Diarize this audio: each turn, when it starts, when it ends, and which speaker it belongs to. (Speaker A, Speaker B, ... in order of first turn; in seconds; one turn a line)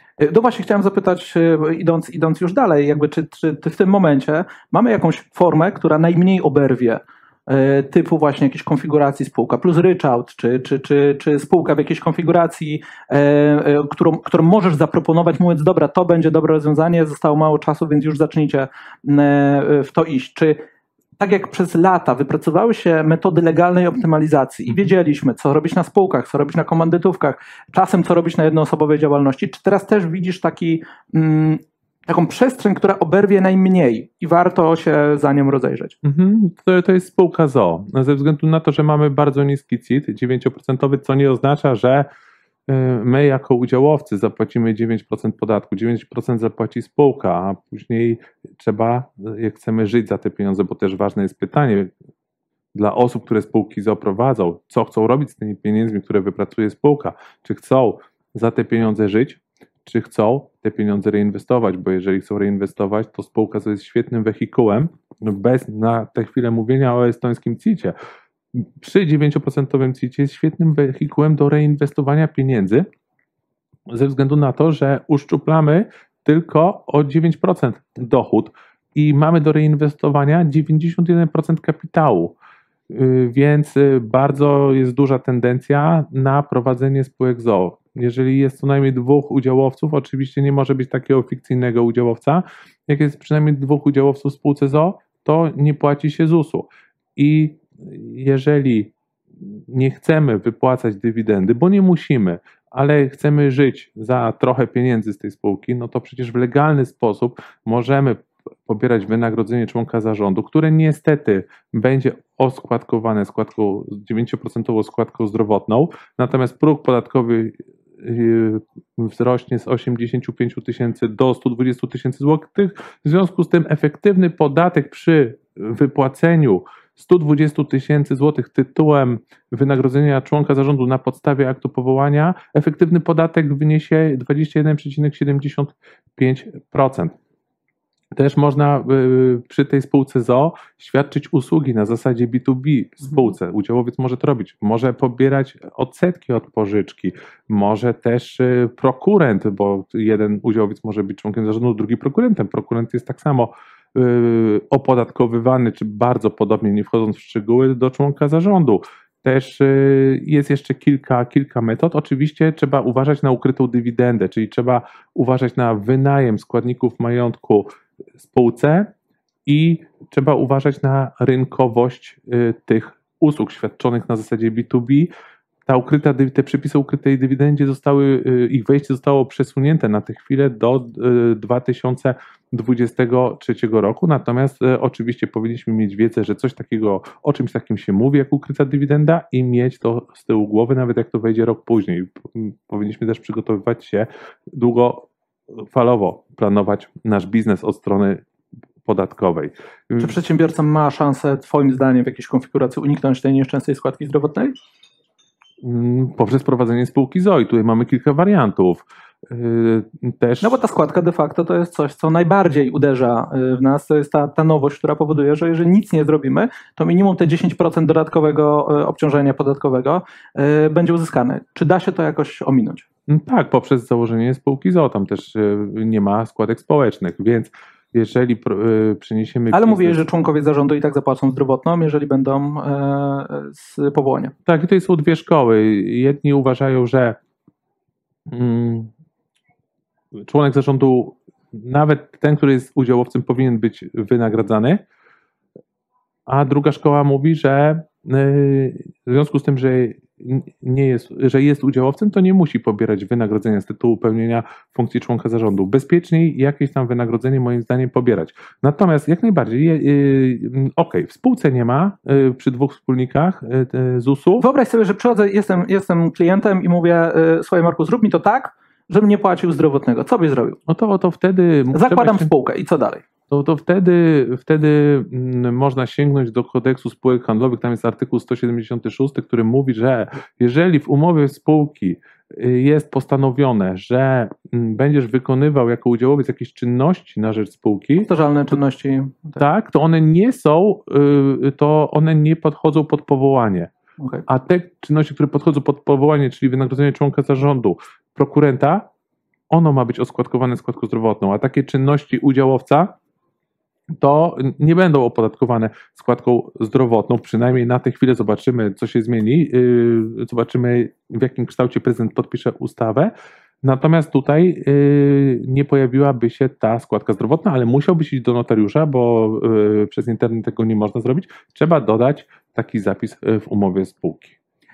Speaker A: 0.2-20.6
Speaker A: 21.2-35.9
Speaker B: 36.0-42.0
Speaker B: 42.7-51.9
Speaker B: 52.7-67.9
Speaker B: 68.5-72.9
Speaker B: 73.9-82.3
Speaker B: 82.9-137.1
Speaker B: 138.2-167.7
Speaker B: 168.2-168.9
Speaker B: 169.4-175.1
Speaker B: 175.7-198.2
Speaker B: 198.8-200.2
Speaker A: 200.0-204.5
Speaker B: 205.6-210.6
Speaker A: 210.4-222.8
Speaker B: 223.1-230.0
Speaker A: 229.5-234.3
Speaker B: 234.4-237.2
Speaker B: 238.3-238.9
Speaker B: 240.3-244.8
Speaker B: 246.3-264.4
Speaker A: 264.4-270.6
Speaker B: 270.7-272.3
Speaker A: 271.7-273.0
Speaker B: 273.3-288.1
Speaker A: 288.0-289.4
Speaker B: 289.4-293.7
Speaker B: 294.3-298.9
Speaker B: 299.5-302.9
Speaker B: 304.0-313.1
Speaker B: 313.6-324.3